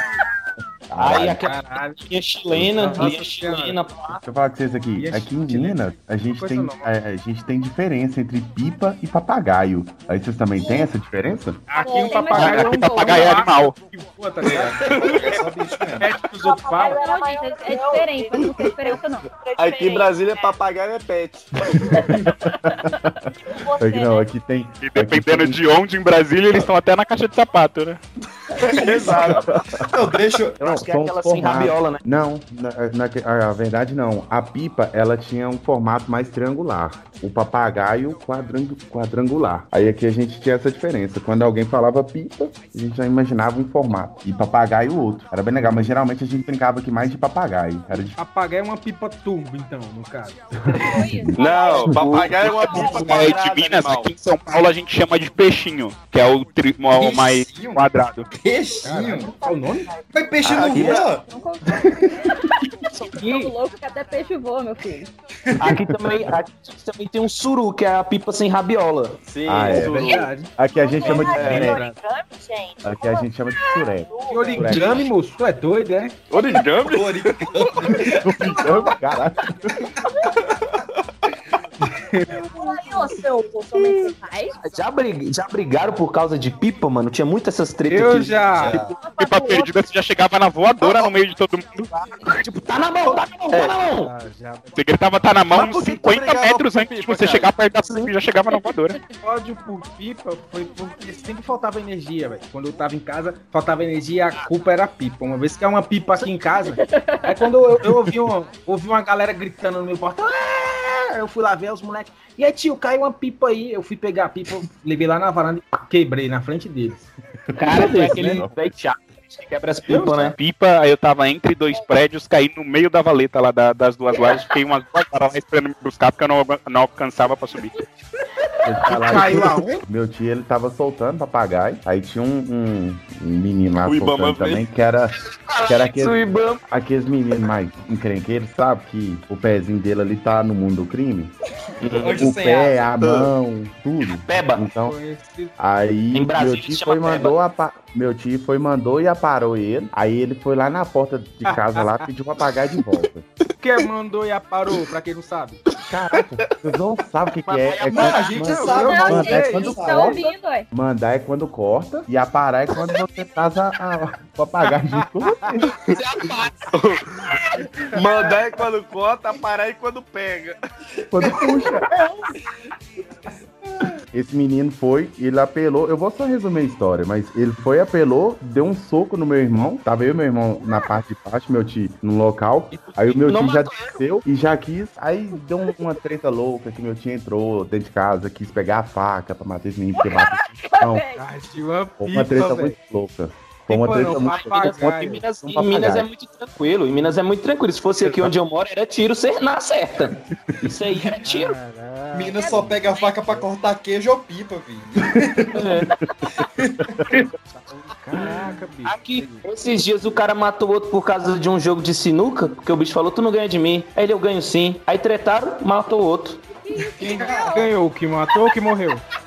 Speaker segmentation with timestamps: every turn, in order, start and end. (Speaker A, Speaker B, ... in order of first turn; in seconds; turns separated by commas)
Speaker A: 0.9-1.4, Speaker B: 1.0-4.2, Speaker C: 1.4-2.0, Speaker A: 2.5-3.1, Speaker C: 2.8-3.8, Speaker A: 4.1-11.7, Speaker C: 5.0-5.8, Speaker C: 6.4-6.9, Speaker D: 10.6-10.9, Speaker C: 11.7-17.0, Speaker E: 11.8-13.4, Speaker F: 12.3-13.8, Speaker G: 14.4-16.1, Speaker H: 14.8-15.5, Speaker D: 16.4-20.5, Speaker E: 16.8-19.3, Speaker H: 19.6-21.5, Speaker E: 21.9-23.0, Speaker A: 21.9-22.3, Speaker D: 23.4-24.3, Speaker A: 23.8-25.8, Speaker F: 24.8-28.0, Speaker H: 28.6-29.6, Speaker G: 28.6-30.8, Speaker A: 29.4-29.9, Speaker A: 30.6-48.2, Speaker B: 30.6-32.0, Speaker C: 48.0-50.9, Speaker E: 50.9-51.9, Speaker H: 51.4-54.1, Speaker B: 51.9-53.0, Speaker F: 52.4-58.3, Speaker E: 52.7-53.1, Speaker G: 56.9-59.3, Speaker C: 58.8-59.9, Speaker D: 58.9-60.1, Speaker G: 60.1-61.2, Speaker H: 60.4-61.1, Speaker B: 60.7-61.0, Speaker E: 61.3-65.1, Speaker C: 63.1-63.5, Speaker G: 65.5-65.8, Speaker B: 65.6-69.2, Speaker H: 69.2-70.3, Speaker A: 69.5-71.8, Speaker C: 69.7-70.5, Speaker D: 70.7-74.8, Speaker C: 71.0-72.0, Speaker H: 71.2-71.7, Speaker A: 72.8-75.1, Speaker C: 74.3-76.2, Speaker B: 74.7-75.1, Speaker H: 76.3-78.2, Speaker G: 76.4-78.2, Speaker A: 78.1-79.7, Speaker D: 78.1-79.2, Speaker E: 80.1-80.4, Speaker H: 80.5-81.0, Speaker C: 81.9-82.5, Speaker D: 82.3-84.6, Speaker B: 84.7-88.7, Speaker C: 87.9-88.7, Speaker G: 88.6-89.0, Speaker F: 88.7-91.9, Speaker E: 89.0-89.7, Speaker D: 91.9-92.2, Speaker B: 92.3-94.1, Speaker H: 93.5-93.8, Speaker C: 94.0-95.3, Speaker F: 94.8-99.0, Speaker H: 95.5-97.5, Speaker C: 99.2-117.1, Speaker E: 106.8-107.3, Speaker A: 117.5-118.7, Speaker B: 117.6-120.4, Speaker C: 117.8-118.4, Speaker C: 119.9-120.3, Speaker F: 120.4-127.7, Speaker E: 124.1-124.5, Speaker A: 128.7-141.3, Speaker C: 128.9-129.8, Speaker H: 133.8-134.7, Speaker B: 135.5-136.6, Speaker B: 141.8-142.3, Speaker G: 141.9-142.8, Speaker A: 142.0-145.0, Speaker H: 143.0-143.3, Speaker B: 144.1-144.6, Speaker C: 144.8-145.5, Speaker A: 145.6-153.3, Speaker B: 146.1-147.3, Speaker C: 151.5-152.1, Speaker C: 153.6-155.6, Speaker A: 155.9-165.7, Speaker B: 157.5-158.3, Speaker G: 157.9-160.2, Speaker C: 158.4-160.2, Speaker E: 158.6-160.7, Speaker C: 165.0-165.6, Speaker B: 166.0-166.5, Speaker H: 166.7-167.2, Speaker H: 167.9-170.6, Speaker A: 171.1-171.9, Speaker G: 171.3-172.2, Speaker A: 174.1-191.1, Speaker B: 183.2-184.0, Speaker E: 190.0-191.2, Speaker C: 191.2-192.8, Speaker A: 192.0-196.1, Speaker C: 193.7-195.2, Speaker B: 194.4-201.5, Speaker C: 201.2-202.6, Speaker G: 202.1-205.8, Speaker E: 202.3-203.3, Speaker B: 205.5-205.9, Speaker G: 206.6-207.0, Speaker C: 207.5-209.4, Speaker B: 208.9-216.4, Speaker E: 216.6-217.7, Speaker G: 217.0-217.7, Speaker C: 217.0-219.0